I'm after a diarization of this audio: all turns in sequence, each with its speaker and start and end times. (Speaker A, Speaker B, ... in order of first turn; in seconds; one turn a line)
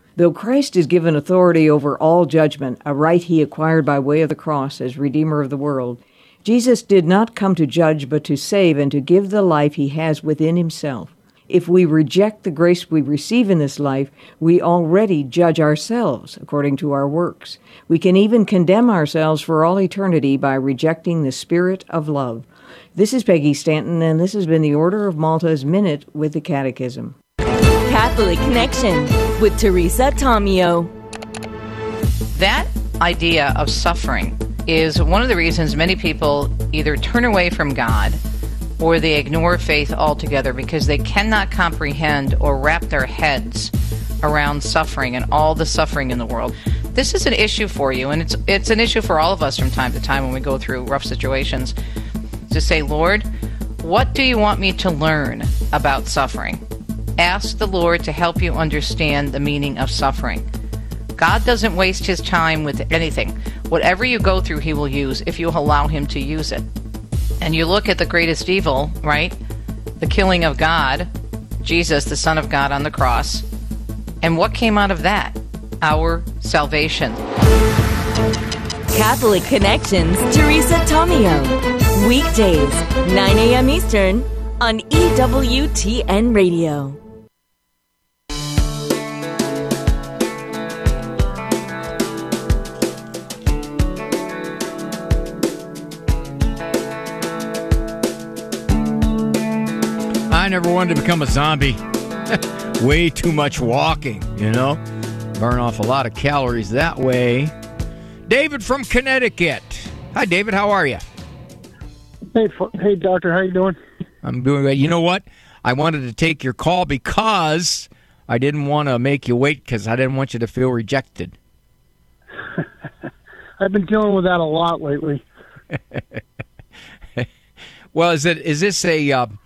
Speaker A: 0.2-27.2
Speaker B: 27.9-30.9
Speaker C: 32.4-38.2
Speaker C: 38.8-51.8
Speaker C: 52.5-53.3
Speaker C: 53.8-56.6
Speaker C: 57.2-60.5
Speaker C: 61.2-66.7
Speaker C: 67.4-69.4
Speaker C: 70.0-71.1
Speaker C: 71.6-73.5
Speaker C: 74.2-77.2
Speaker B: 78.9-87.0
Speaker D: 100.3-104.8
Speaker D: 105.4-107.5
Speaker D: 108.3-111.1
Speaker E: 112.3-113.8
Speaker D: 114.2-121.4
Speaker E: 123.6-125.2
Speaker D: 125.7-126.2
Speaker D: 127.9-129.3